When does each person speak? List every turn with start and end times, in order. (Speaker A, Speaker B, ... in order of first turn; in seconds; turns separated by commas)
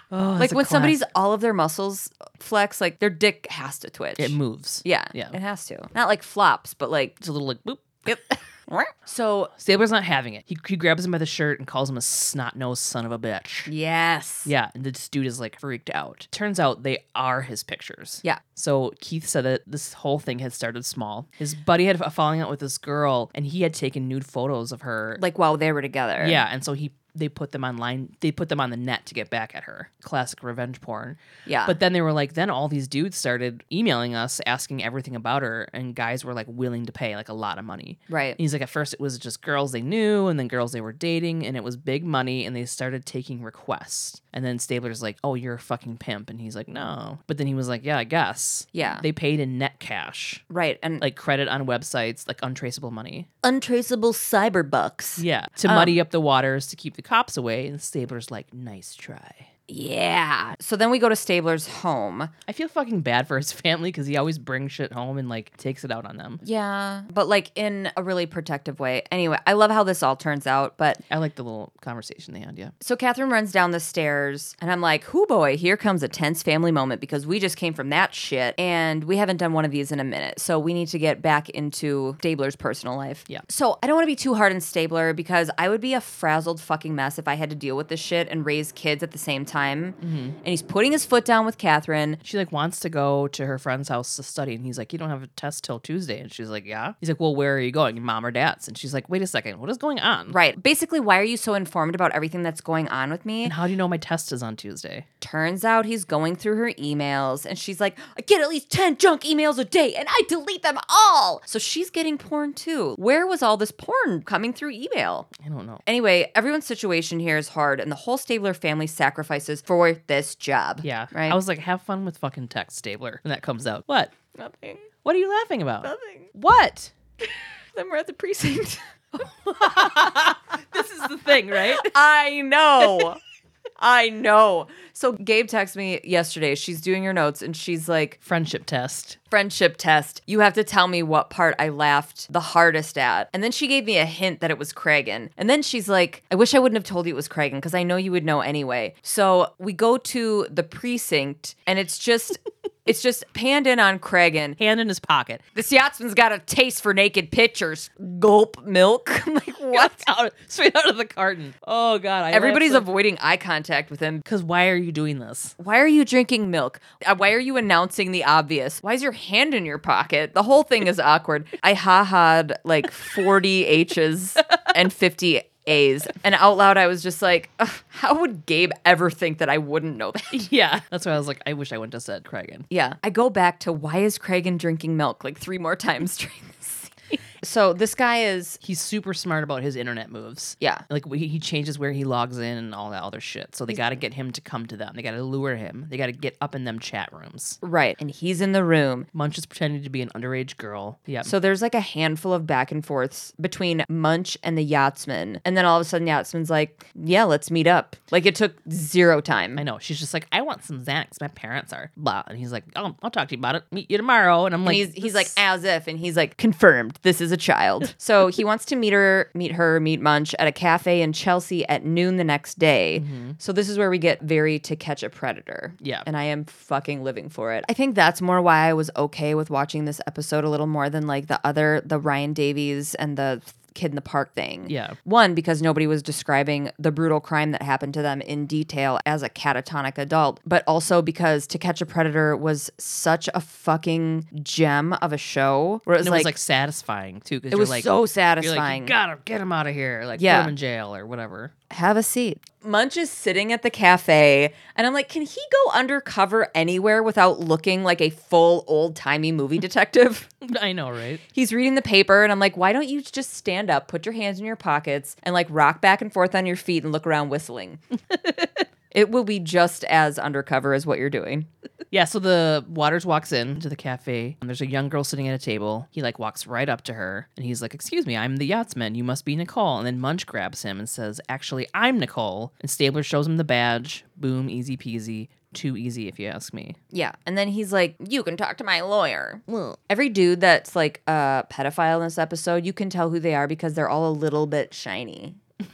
Speaker A: 0.1-1.0, Speaker B: 0.4-7.2, Speaker A: 4.2-5.3, Speaker A: 7.2-8.2, Speaker B: 8.1-9.5, Speaker A: 9.6-13.7, Speaker B: 13.7-14.5, Speaker A: 14.4-25.2, Speaker B: 25.2-26.4, Speaker A: 26.2-50.4, Speaker B: 31.4-31.8, Speaker B: 38.1-38.4, Speaker B: 48.7-49.0, Speaker B: 50.5-51.0, Speaker A: 51.0-53.3, Speaker B: 53.4-56.0, Speaker A: 55.2-59.5, Speaker B: 59.7-62.3, Speaker A: 62.5-66.4, Speaker B: 66.4-71.0, Speaker A: 71.1-72.7, Speaker B: 72.8-92.2, Speaker A: 90.0-90.3, Speaker A: 92.2-100.3, Speaker B: 100.3-103.5, Speaker A: 103.4-105.0, Speaker B: 105.2-115.3, Speaker A: 115.4-115.8, Speaker B: 115.8-121.4, Speaker A: 120.8-124.1, Speaker B: 124.3-124.9, Speaker A: 125.0-126.9, Speaker B: 125.8-126.2, Speaker B: 127.2-130.4, Speaker A: 129.6-131.8, Speaker B: 131.5-133.2, Speaker B: 133.8-138.2, Speaker A: 138.2-139.2, Speaker B: 139.3-154.6, Speaker A: 154.6-155.4, Speaker B: 155.5-160.1, Speaker A: 159.7-162.9, Speaker B: 162.3-164.2, Speaker A: 164.2-165.5, Speaker B: 165.6-180.5, Speaker A: 180.3-182.7, Speaker B: 182.7-188.6, Speaker A: 188.6-197.6, Speaker B: 193.7-194.0, Speaker B: 197.6-199.1, Speaker A: 199.1-201.3, Speaker B: 201.2-209.6, Speaker A: 209.6-215.3, Speaker B: 214.6-246.3, Speaker A: 222.9-223.4, Speaker A: 225.8-226.1, Speaker A: 234.7-234.9, Speaker A: 246.0-251.5, Speaker B: 247.5-248.9, Speaker B: 250.2-250.5, Speaker B: 251.7-260.3, Speaker A: 260.4-261.2, Speaker B: 261.3-267.8, Speaker A: 268.1-268.5, Speaker B: 268.9-271.5, Speaker A: 271.9-286.8, Speaker B: 286.9-295.4, Speaker A: 289.5-289.8